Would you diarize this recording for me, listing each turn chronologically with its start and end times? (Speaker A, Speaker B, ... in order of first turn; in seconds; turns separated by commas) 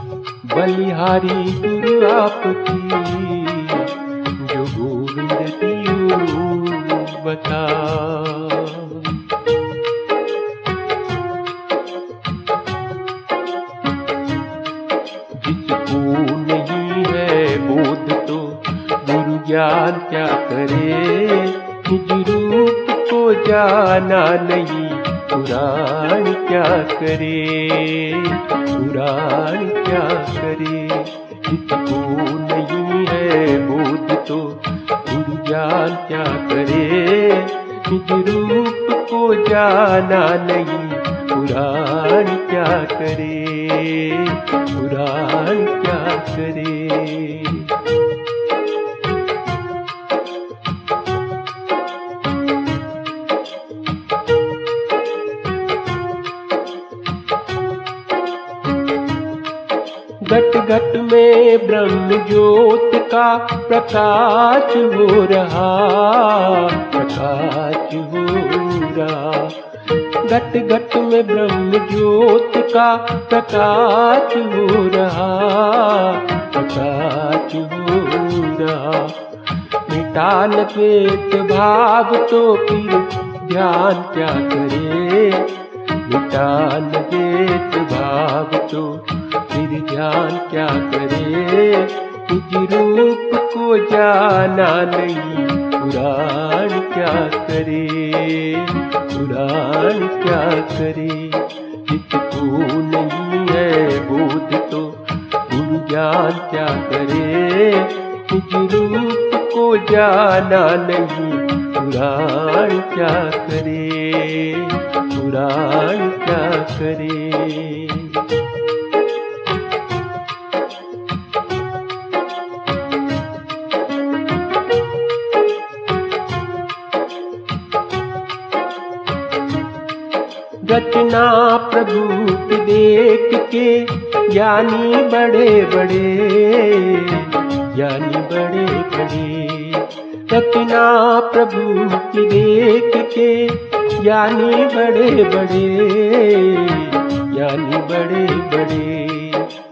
Speaker A: 0.4-9.2, Speaker A: 15.3-47.8, Speaker A: 60.2-69.7, Speaker A: 70.2-118.3, Speaker A: 130.6-149.6